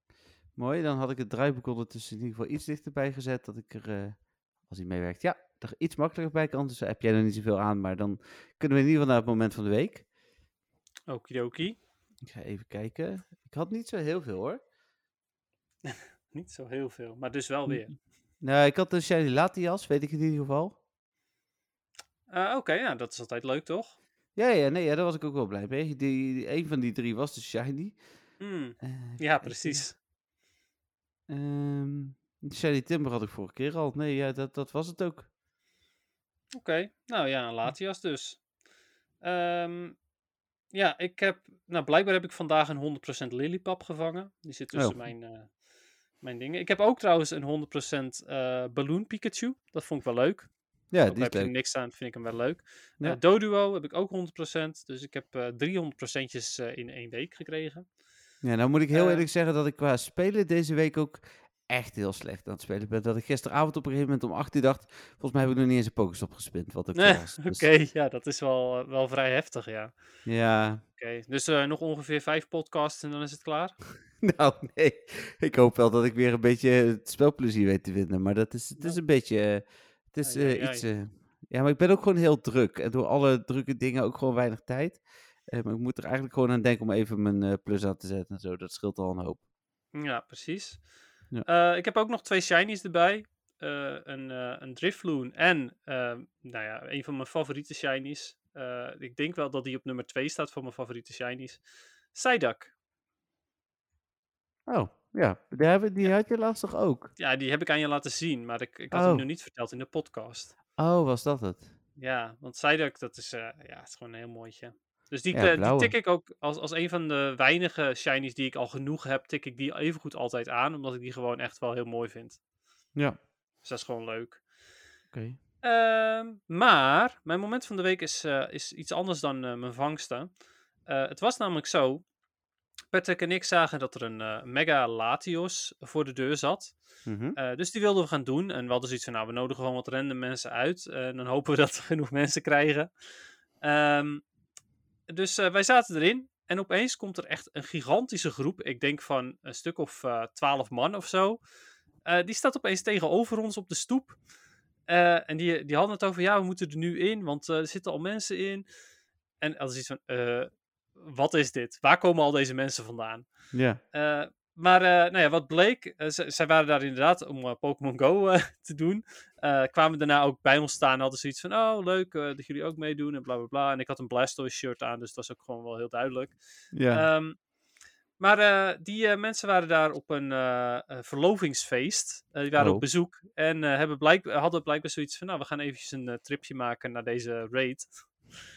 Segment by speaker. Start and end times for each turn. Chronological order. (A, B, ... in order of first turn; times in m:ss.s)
0:00.6-0:10.0 A
0:11.1-0:11.8 B
0:12.2-0:14.6 A
0:15.8-0:17.9 B
0:18.4-0:20.8 A
0:22.3-0:24.0 B
0:24.4-0:28.0 A
0:28.4-0:29.9 B
0:28.8-0:29.9 A
0:31.3-0:35.3 A
0:36.5-0:38.4 B
0:39.2-0:40.0 B
0:40.7-0:45.5 B
0:46.2-0:50.5 B
0:50.9-0:51.5 A
0:51.0-0:57.8 B
0:58.4-1:07.7 A
0:58.9-0:59.2 B
1:06.9-1:09.9 B
1:10.2-1:10.8 A
1:11.0-1:13.8 B
1:14.2-1:29.4 A
1:20.2-1:20.9 B
1:29.9-1:30.8 B
1:31.4-1:42.7 B
1:44.7-1:47.1 A
1:47.2-1:50.5 B
1:48.9-1:49.2 A
1:50.8-1:51.7 A
1:52.0-2:02.4 B
1:55.3-1:55.9 A
2:03.6-2:04.4 B
2:05.1-2:05.4 A
2:05.6-2:10.3 B
2:10.8-2:12.0 B
2:12.9-2:16.7 B
2:17.0-2:17.4 A
2:17.4-2:22.9 B
2:23.6-2:24.2 B
2:25.1-2:31.4 B
2:32.0-2:34.2 B
2:34.9-2:38.6 B
2:39.4-2:43.3 B
2:43.5-2:43.8 A
2:43.9-2:57.4 B
2:56.7-2:57.0 A
2:58.2-3:07.9 B
3:02.6-3:02.8 A